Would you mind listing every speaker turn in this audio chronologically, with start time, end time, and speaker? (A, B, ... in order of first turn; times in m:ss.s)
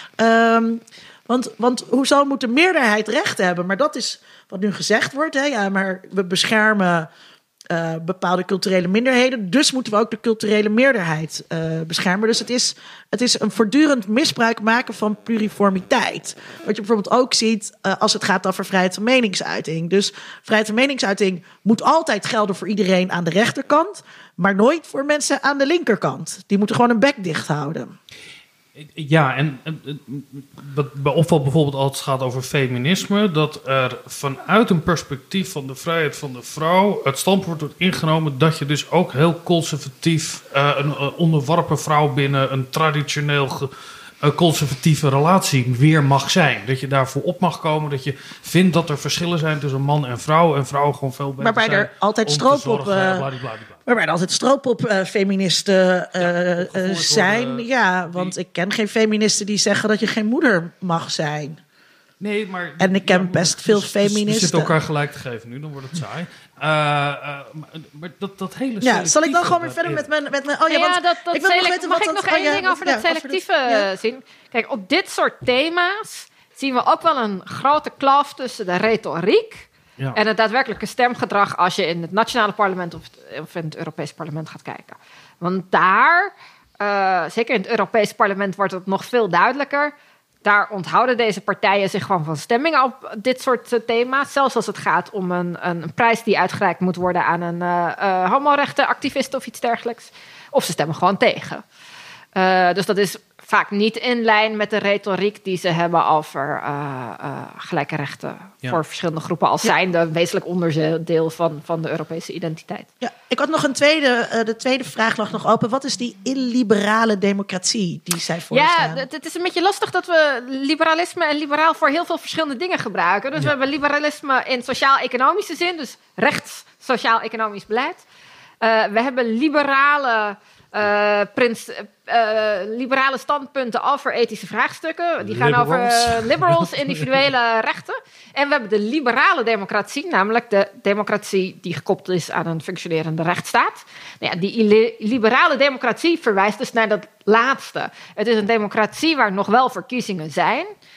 0:00.2-0:07.1 A
0:07.7-0:27.9 A
0:28.8-0:53.8 B
0:51.4-0:53.2 A
0:53.8-1:01.6 A
0:56.2-0:58.3 B
1:02.2-1:10.1 B
1:02.8-1:04.7 A
1:08.8-1:13.8 A
1:10.7-1:29.9 C
1:30.4-1:41.6 C
1:42.3-1:52.9 C
1:53.0-1:59.0 A
1:58.5-2:08.0 C
2:08.6-2:30.7 C
2:15.2-2:17.3 B